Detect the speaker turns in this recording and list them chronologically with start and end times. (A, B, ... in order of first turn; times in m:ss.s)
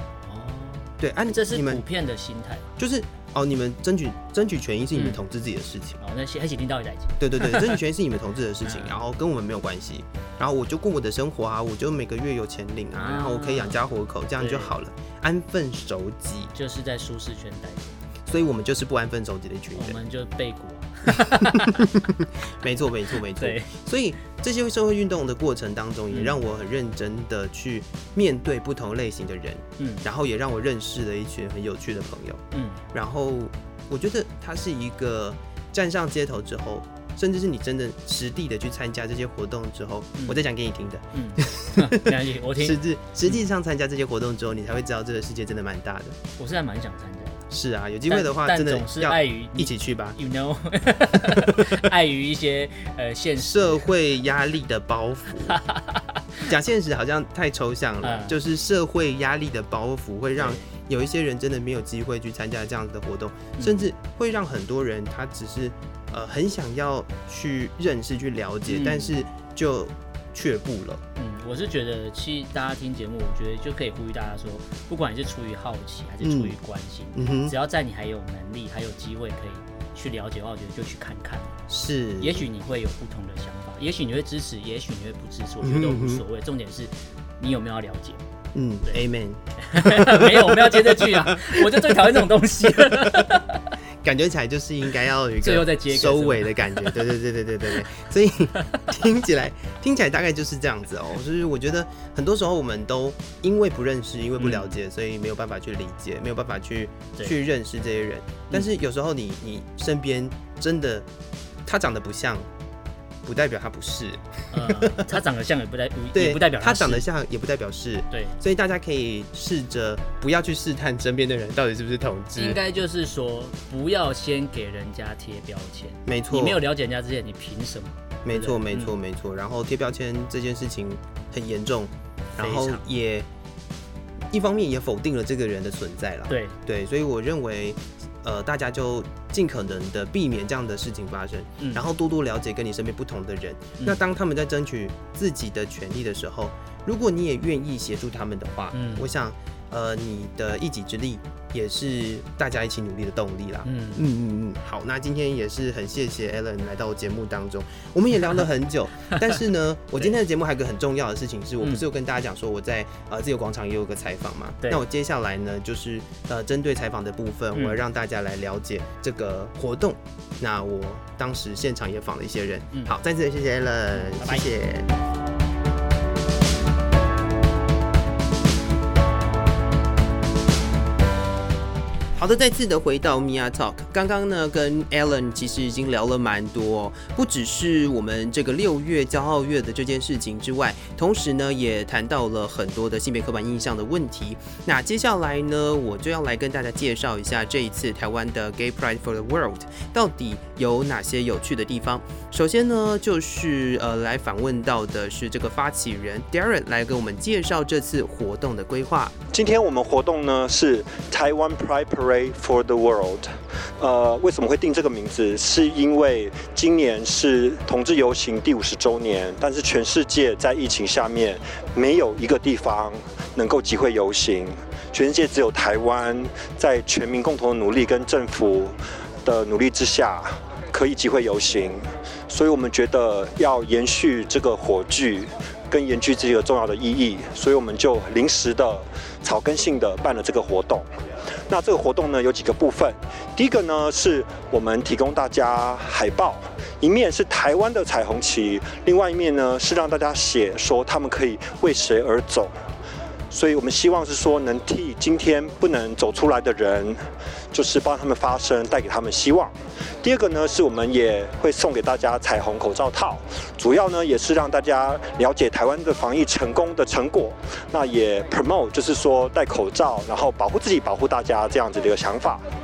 0:00.2-0:02.7 A
0:01.0-0:01.8 B
0:02.8-0:06.0 B
0:04.9-0:05.2 A
0:06.0-0:07.7 A
0:07.2-0:16.5 B
0:08.6-0:09.0 A
0:12.9-0:13.8 A
0:14.4-0:14.7 A
0:16.5-0:18.0 A
0:18.2-0:20.0 B
0:19.7-0:21.9 A
0:21.5-0:32.4 B
0:23.4-0:23.7 A
0:26.1-0:26.4 A
0:29.8-0:30.0 A
0:32.5-0:32.8 A
0:32.9-0:46.2 B
0:41.1-0:43.4 A
0:46.4-0:47.4 A
0:47.5-0:50.2 B
0:48.1-0:53.9 A
0:53.4-0:55.6 B
0:55.5-0:56.0 A
0:56.4-1:11.0 B
0:58.0-0:58.4 A
1:00.4-1:00.7 A
1:03.6-1:03.9 A
1:08.7-1:09.2 A
1:11.2-1:21.6 A
1:16.2-1:16.5 B
1:17.1-1:17.5 B
1:21.7-1:22.4 B
1:22.2-1:28.2 A
1:25.6-1:26.2 B
1:28.5-1:33.3 B
1:29.6-1:33.7 A
1:34.0-1:51.1 B
1:35.4-1:36.9 A
1:44.4-1:44.8 A
1:51.6-1:52.5 B
1:53.2-1:55.1 B
1:54.5-1:57.0 A
1:56.1-2:02.6 B
1:58.1-1:58.4 A
2:02.4-2:08.9 A
2:06.0-2:06.6 B
2:08.2-2:13.3 B
2:12.4-2:12.8 A
2:14.3-2:54.9 B
2:16.3-2:16.6 A
2:21.6-2:21.8 A
2:28.7-2:29.1 A
2:33.6-2:34.0 A
2:41.6-2:41.8 A
2:47.5-2:47.8 A
2:53.9-2:54.5 A
3:02.2-3:29.1 B
3:29.3-3:33.3 C
3:33.8-4:00.8 C
4:01.5-4:12.5 C
4:13.3-4:17.0 C
4:17.5-4:32.4 C